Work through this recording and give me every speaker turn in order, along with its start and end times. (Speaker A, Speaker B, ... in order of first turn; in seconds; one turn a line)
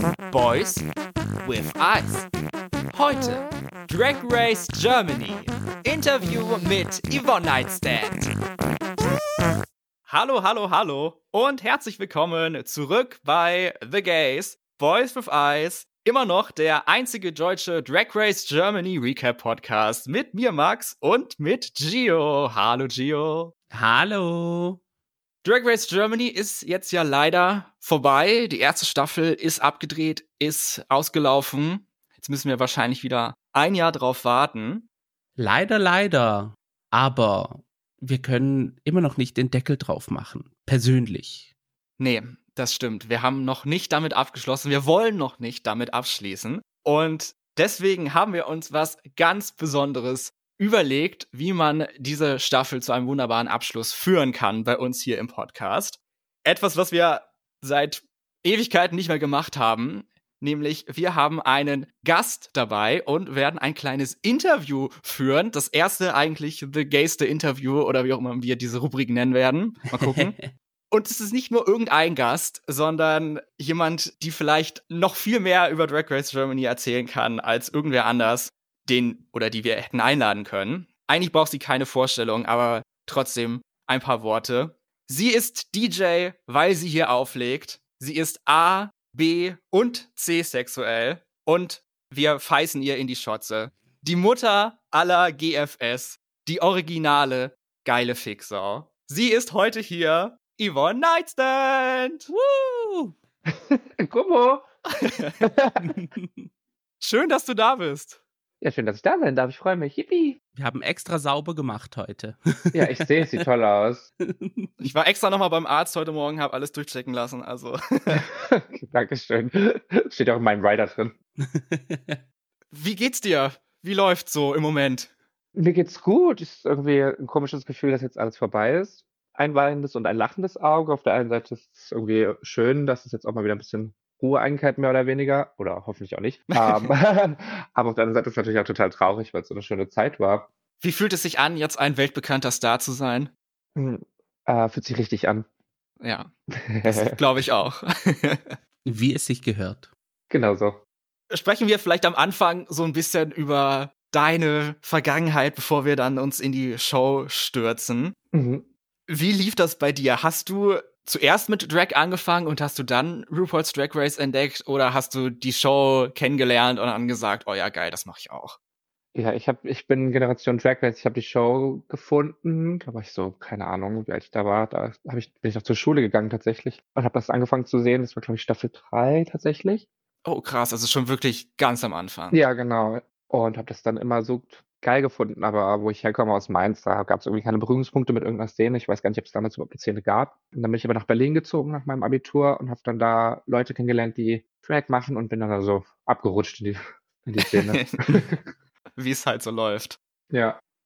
Speaker A: 0.3-0.8
Speaker A: 1.4-2.3
Speaker A: 2.9-8.3
Speaker A: 10.1-23.5
Speaker B: 23.7-24.8
Speaker A: 25.4-34.8
Speaker B: 35.4-41.5
Speaker A: 42.0-70.3
Speaker B: 69.9-70.5
Speaker A: 70.9-102.3
Speaker B: 102.3-103.1
Speaker C: 103.5-104.6
Speaker A: 105.0-105.5
Speaker C: 105.5-105.8
Speaker B: 105.8-106.5
Speaker A: 107.0-108.2
Speaker C: 108.6-110.4
Speaker B: 110.5-113.4
Speaker C: 112.7-114.1
Speaker B: 114.2-114.8
Speaker A: 114.8-118.2
Speaker C: 118.1-121.1
Speaker B: 121.4-122.2
Speaker A: 122.7-125.1
Speaker C: 125.5-140.5
Speaker A: 136.5-136.9
Speaker A: 140.8-143.3
Speaker C: 143.8-145.4
Speaker A: 146.0-146.3
Speaker C: 146.5-147.2
Speaker A: 146.8-148.6
Speaker B: 148.8-149.9
Speaker C: 150.3-150.8
Speaker A: 151.3-158.1
Speaker C: 158.3-158.7
Speaker A: 159.1-168.6
Speaker C: 169.1-179.9
Speaker A: 180.2-182.4
Speaker C: 182.3-198.4
Speaker A: 197.4-198.0
Speaker A: 199.0-200.0
Speaker C: 200.3-200.6